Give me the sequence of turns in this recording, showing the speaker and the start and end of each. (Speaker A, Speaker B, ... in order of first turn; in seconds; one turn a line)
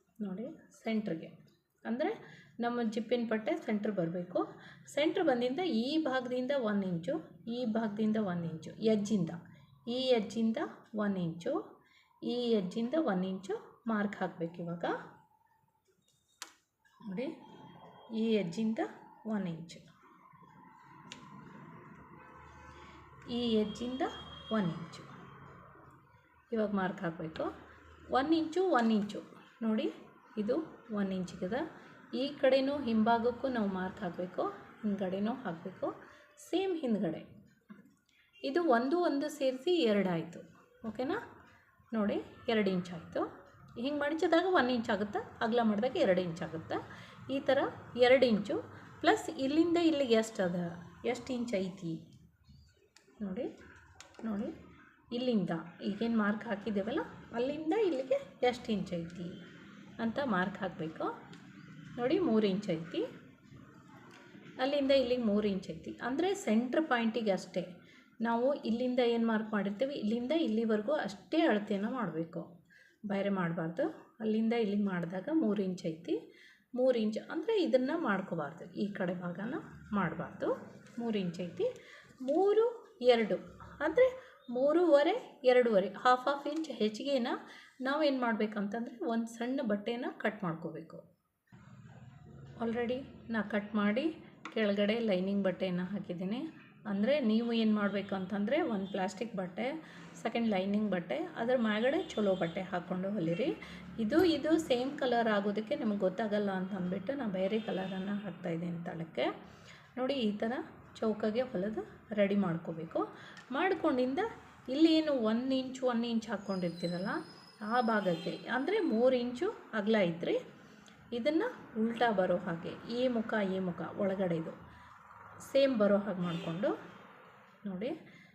Speaker A: 0.2-11.6
Speaker A: 12.2-14.9
Speaker A: 17.0-17.4
Speaker A: 18.2-19.9
Speaker A: 23.3-25.1
Speaker A: 26.5-27.5
Speaker A: 28.1-37.3
Speaker A: 38.4-41.2
Speaker A: 41.9-52.0
Speaker A: 53.2-53.5
Speaker A: 54.2-54.5
Speaker A: 55.1-59.4
Speaker A: 60.0-61.1
Speaker A: 61.9-63.1
Speaker A: 64.6-67.7
Speaker A: 68.2-72.5
Speaker A: 73.1-76.2
Speaker A: 76.8-81.7
Speaker A: 82.2-91.0
Speaker A: 92.6-109.3
Speaker A: 110.0-120.4
Speaker A: 121.1-124.6
Speaker A: 125.5-126.8
Speaker A: 127.6-128.0